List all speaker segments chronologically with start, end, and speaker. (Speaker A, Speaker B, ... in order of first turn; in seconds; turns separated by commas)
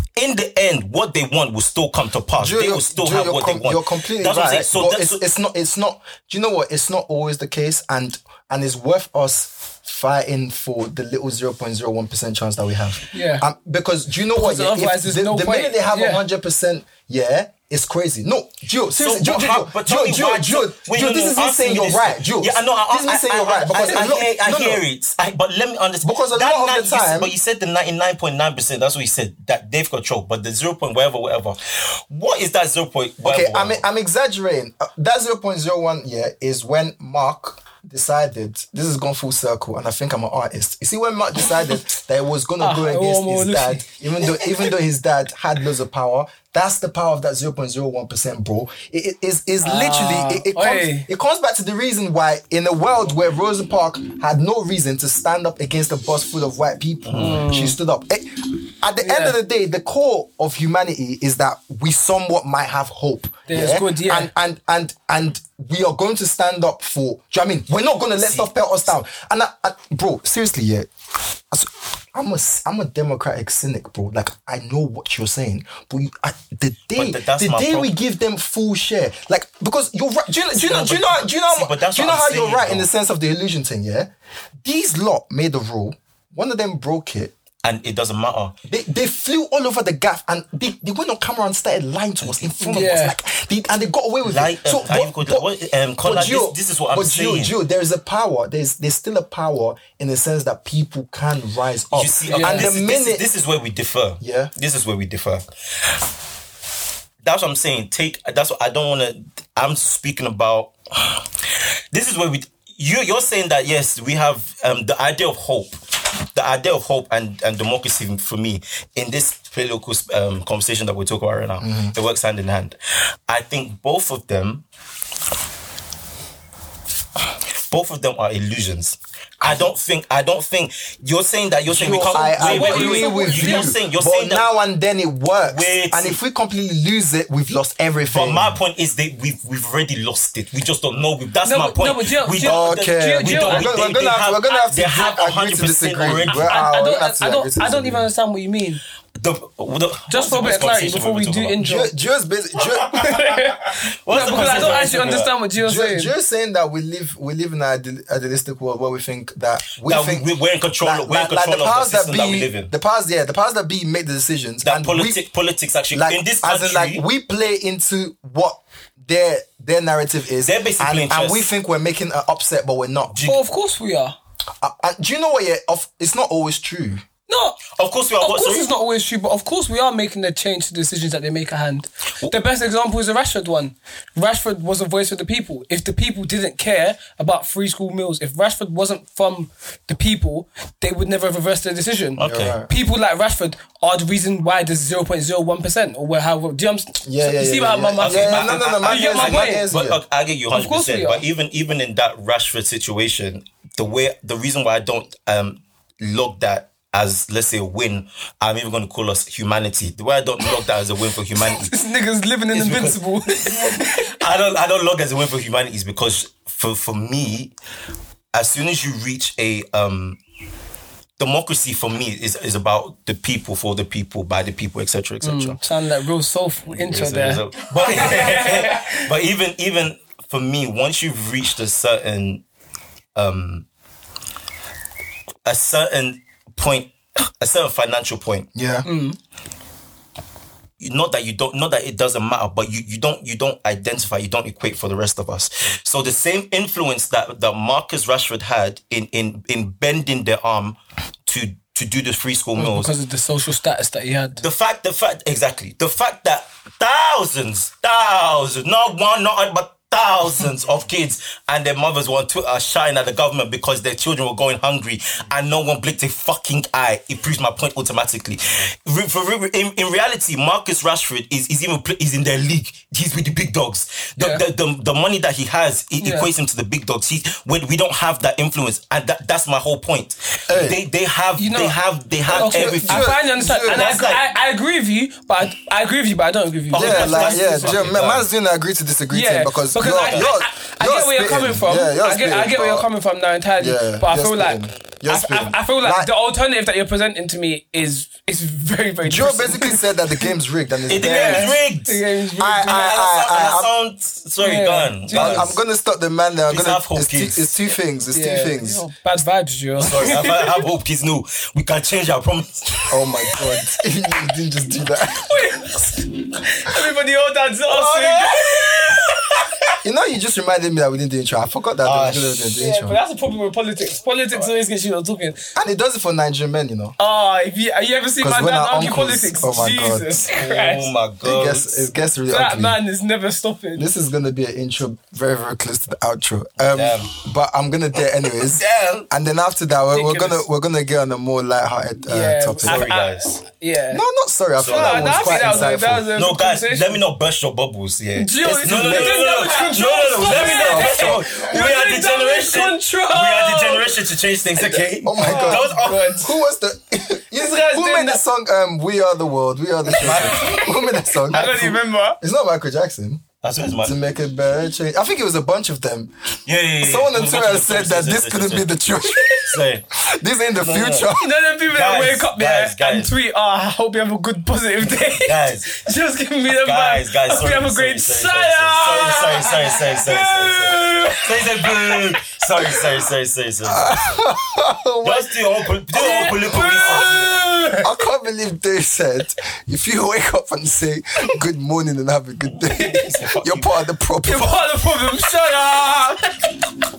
Speaker A: 0.2-5.2, Speaker B: 2.4-24.8, Speaker C: 13.1-13.4, Speaker C: 14.3-16.2, Speaker A: 19.0-31.6, Speaker B: 26.0-27.3, Speaker A: 32.1-33.8, Speaker B: 33.2-70.9, Speaker C: 42.6-43.9, Speaker C: 49.6-51.1, Speaker A: 57.0-57.4, Speaker C: 57.1-57.8, Speaker C: 59.0-59.4, Speaker C: 63.5-64.3, Speaker A: 68.2-68.5, Speaker B: 71.5-84.1, Speaker A: 77.0-77.9, Speaker A: 80.5-82.9, Speaker B: 84.6-87.3, Speaker A: 87.6-88.5, Speaker B: 88.7-95.5, Speaker A: 92.2-92.5, Speaker C: 92.6-93.2, Speaker A: 94.3-97.5, Speaker B: 96.0-103.2, Speaker A: 101.9-105.5, Speaker C: 102.3-102.7, Speaker B: 104.2-104.5, Speaker A: 107.2-111.2, Speaker A: 111.9-115.8, Speaker A: 116.3-122.8, Speaker B: 121.6-121.9, Speaker A: 123.3-124.6, Speaker A: 127.7-134.5, Speaker B: 131.7-138.6, Speaker C: 132.1-133.8, Speaker A: 135.4-136.2, Speaker A: 138.1-146.7, Speaker C: 141.4-143.8, Speaker B: 142.4-148.1, Speaker C: 146.3-148.8, Speaker A: 149.2-151.6, Speaker C: 150.1-151.9, Speaker B: 151.6-153.2, Speaker C: 152.9-156.1, Speaker A: 154.1-155.3, Speaker B: 154.2-154.8, Speaker B: 155.5-160.3, Speaker A: 159.8-162.7, Speaker B: 160.8-165.2, Speaker A: 164.6-167.0, Speaker B: 165.9-173.2, Speaker A: 170.4-171.5, Speaker A: 173.1-173.4, Speaker C: 173.2-174.2, Speaker B: 174.6-177.0, Speaker C: 177.3-177.6, Speaker A: 177.7-178.7, Speaker C: 178.2-199.7, Speaker A: 192.2-192.6, Speaker B: 192.2-192.7, Speaker B: 197.0-200.0, Speaker A: 198.0-211.8, Speaker C: 200.5-201.2, Speaker C: 211.4-214.1, Speaker A: 212.5-217.5, Speaker A: 218.3-220.2, Speaker A: 221.2-225.6, Speaker C: 225.2-229.1, Speaker A: 226.7-232.4, Speaker A: 233.2-233.7, Speaker A: 235.4-238.5, Speaker B: 238.6-238.9, Speaker C: 238.8-239.2, Speaker A: 240.8-252.9, Speaker C: 252.6-254.4, Speaker A: 254.4-284.2, Speaker C: 274.2-274.4, Speaker C: 276.0-276.3, Speaker B: 280.5-280.8, Speaker C: 281.4-287.9, Speaker B: 282.4-283.9, Speaker A: 286.7-288.3, Speaker B: 286.7-292.9, Speaker C: 289.1-300.3, Speaker A: 289.9-290.3, Speaker B: 293.6-296.1, Speaker B: 299.0-301.6, Speaker A: 300.9-302.0, Speaker C: 301.0-302.9, Speaker B: 302.4-303.7, Speaker A: 302.5-305.6, Speaker C: 304.4-305.6, Speaker B: 305.1-308.8, Speaker A: 306.5-307.5, Speaker C: 308.1-310.7, Speaker A: 309.8-313.1, Speaker B: 312.9-315.4, Speaker C: 315.1-319.0, Speaker A: 317.7-319.2, Speaker B: 319.8-323.0, Speaker A: 321.8-322.6, Speaker C: 322.6-325.4, Speaker B: 325.6-326.9, Speaker C: 327.0-330.9, Speaker B: 328.2-330.3, Speaker A: 330.3-331.9, Speaker B: 331.2-332.8, Speaker C: 332.3-333.9, Speaker B: 333.8-342.9, Speaker A: 336.6-337.2, Speaker A: 338.2-339.1, Speaker C: 339.9-340.4, Speaker C: 342.1-344.0, Speaker A: 342.6-343.4, Speaker B: 343.9-346.1, Speaker A: 344.6-356.2, Speaker C: 344.6-347.0, Speaker C: 348.1-354.0, Speaker B: 350.2-351.2, Speaker C: 354.7-356.3, Speaker B: 355.0-363.2, Speaker C: 357.3-358.2, Speaker A: 360.0-360.7, Speaker C: 360.1-362.2, Speaker A: 363.4-363.9, Speaker B: 363.8-366.1, Speaker A: 366.5-368.7, Speaker B: 366.8-369.4, Speaker A: 369.5-369.8, Speaker B: 370.1-371.3, Speaker A: 370.6-373.1, Speaker C: 371.2-382.8, Speaker A: 375.1-375.8, Speaker A: 376.5-383.9, Speaker B: 383.6-385.4, Speaker A: 385.0-387.5, Speaker C: 385.9-387.9, Speaker B: 387.8-394.6, Speaker A: 392.5-393.7, Speaker C: 392.7-393.1, Speaker C: 394.2-396.6